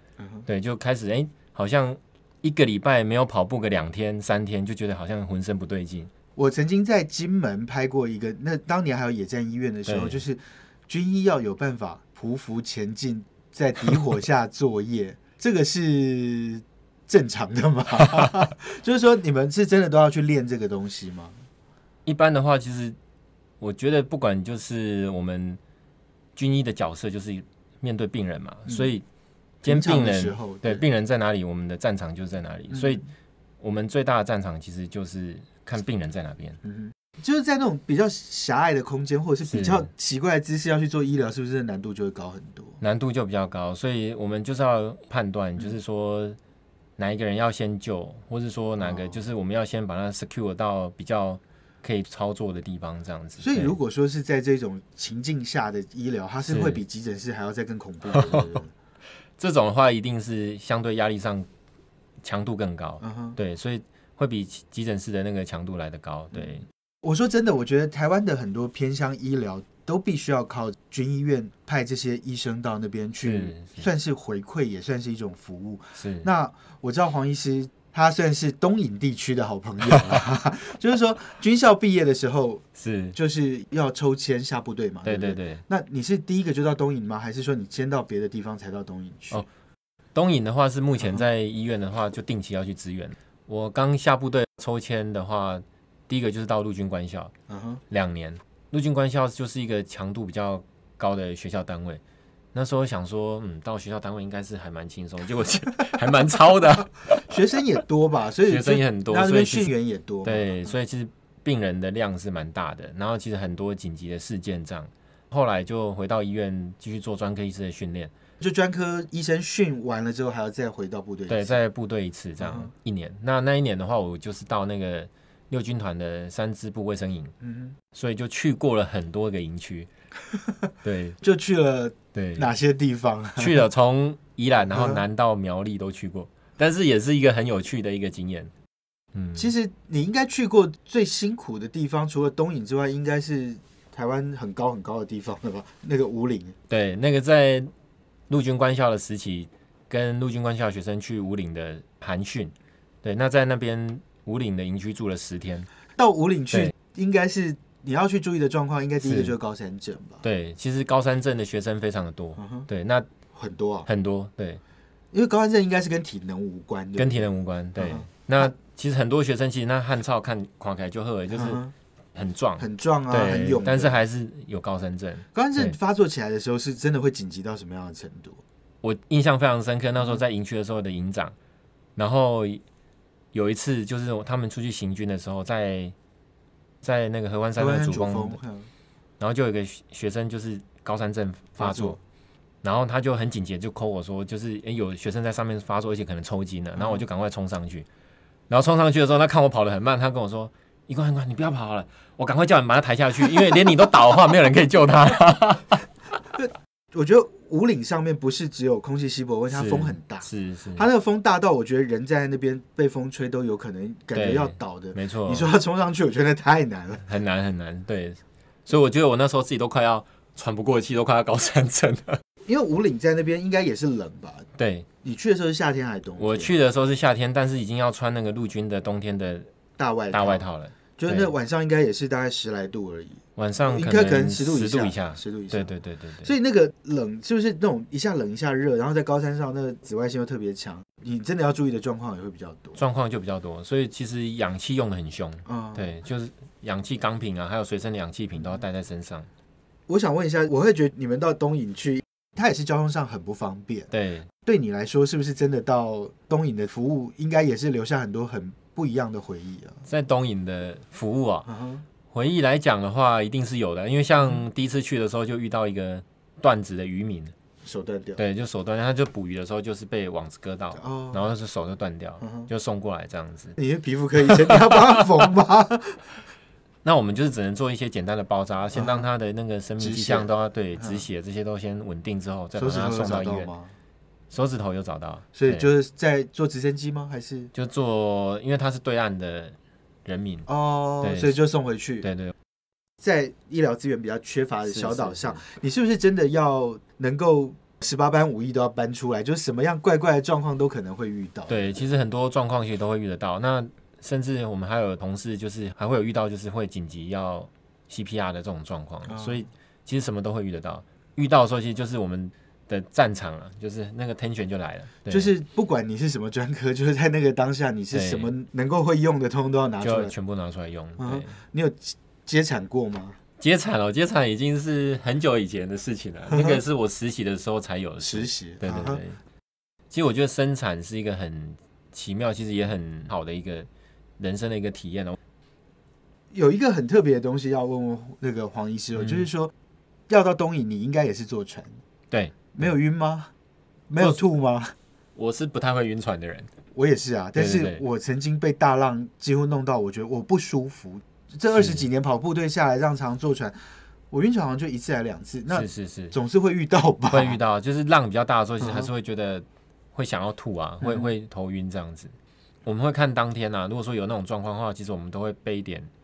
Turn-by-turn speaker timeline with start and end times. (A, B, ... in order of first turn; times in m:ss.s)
0:00.2-0:00.4 A
0:00.5-0:06.1 B
0:06.4-0:21.4 A
0:09.9-0:10.2 B
0:22.1-0:23.0 B
0:23.6-0:25.6 B
0:26.4-0:29.0 B
0:29.6-0:33.0 B
0:29.6-0:30.8 A
0:32.7-0:33.0 A
0:33.6-0:36.6 B
0:36.6-0:42.8 A
0:39.4-0:39.9 B
0:42.8-0:46.4 B
0:47.0-0:53.8 B
0:48.8-0:49.2 A
0:53.4-0:58.7 A
0:56.5-0:56.8 B
0:59.4-1:01.5 B
1:02.2-1:06.6 B
1:03.0-1:03.4 A
1:06.3-1:22.6 A
1:13.2-1:13.9 B
1:16.0-1:16.3 B
1:22.8-1:23.2 B
1:23.2-1:29.4 A
1:25.0-1:25.6 B
1:30.2-1:37.3 B
1:37.5-1:37.8 A
1:37.9-1:42.0 B
1:42.6-1:47.2 B
1:47.0-1:50.7 A
1:48.4-1:49.7 B
1:50.2-1:58.1 B
1:58.4-2:01.6 A
2:01.3-2:07.3 B
2:02.4-2:02.7 A
2:07.4-2:07.8 A
2:07.9-2:09.9 B
2:10.8-2:11.2 B
2:11.2-2:13.6 A
2:12.1-2:12.5 B
2:13.4-2:18.5 B
2:14.6-2:15.0 A
2:19.2-2:19.5 B
2:19.4-2:26.6 A
2:26.7-2:27.7 B
2:28.3-2:32.5 B
2:33.0-2:35.7 B
2:36.0-2:40.2 A
2:39.0-2:39.3 B
2:40.2-2:43.1 B
2:42.4-2:42.7 A
2:43.3-2:43.9 A
2:43.9-2:44.6 B
2:45.1-2:48.5 A
2:47.0-2:51.6 B
2:51.3-2:51.7 A
2:52.2-2:55.8 B
2:52.6-2:54.0 A
2:55.3-2:58.4 A
2:58.8-3:01.3 B
3:02.0-3:02.6 B
3:03.3-3:05.9 B
3:06.8-3:08.4 B
3:07.6-3:08.7 A
3:09.2-3:12.0 B
3:11.6-3:12.0 A
3:12.6-3:17.9 B
3:16.8-3:17.0 A
3:18.5-3:25.8 B
3:26.4-3:37.0 A
3:29.5-3:30.9 B
3:34.1-3:35.5 B
3:37.0-3:42.2 B
3:42.5-3:44.5 A
3:44.6-3:44.9 B
3:45.0-3:46.5 A
3:46.2-3:49.5 B
3:49.8-3:50.4 A
3:50.1-3:51.3 B
3:51.0-3:55.7 A
3:53.4-3:56.3 B
3:56.2-4:02.8 A
4:02.8-4:09.3 B
4:05.5-4:05.9 A
4:09.9-4:13.9 A
4:13.9-4:14.3 B
4:14.4-4:19.9 A
4:19.9-4:21.5 B
4:21.5-4:21.8 A
4:22.1-4:27.3 B
4:27.6-4:28.2 A
4:28.2-4:33.6 B
4:30.8-4:31.3 A
4:32.2-4:32.5 A
4:33.6-4:36.2 A
4:36.8-4:43.5 B
4:38.7-4:39.1 A
4:39.8-4:40.3 A
4:42.6-4:43.7 A
4:44.3-4:45.6 B
4:45.3-4:47.5 A
4:47.5-4:50.5 B
4:50.5-4:52.1 A
4:51.0-4:51.4 B
4:52.0-4:52.3 B
4:53.0-5:01.7 A
4:54.7-4:55.4 B
5:01.5-5:15.3 B
5:09.1-5:09.4 A
5:15.1-5:20.1 A
5:17.9-5:18.3 B
5:19.8-5:21.3 B
5:21.0-5:23.2 A
5:23.4-5:29.2 B
5:26.3-5:26.6 A
5:28.0-5:29.0 A
5:29.9-5:33.7 B
5:34.2-5:35.2 B
5:36.3-5:39.5 A
5:40.1-5:41.8 A
5:42.1-5:42.7 B
5:42.5-5:43.3 A
5:43.9-5:44.7 A
5:45.2-5:46.5 B
5:46.7-5:53.6 A
5:47.4-5:47.8 B
5:51.5-5:51.9 B
5:54.1-5:57.4 A
5:55.5-5:56.2 B
5:57.1-6:02.1 B
5:58.6-5:58.9 A
6:00.8-6:01.1 A
6:02.7-6:05.9 B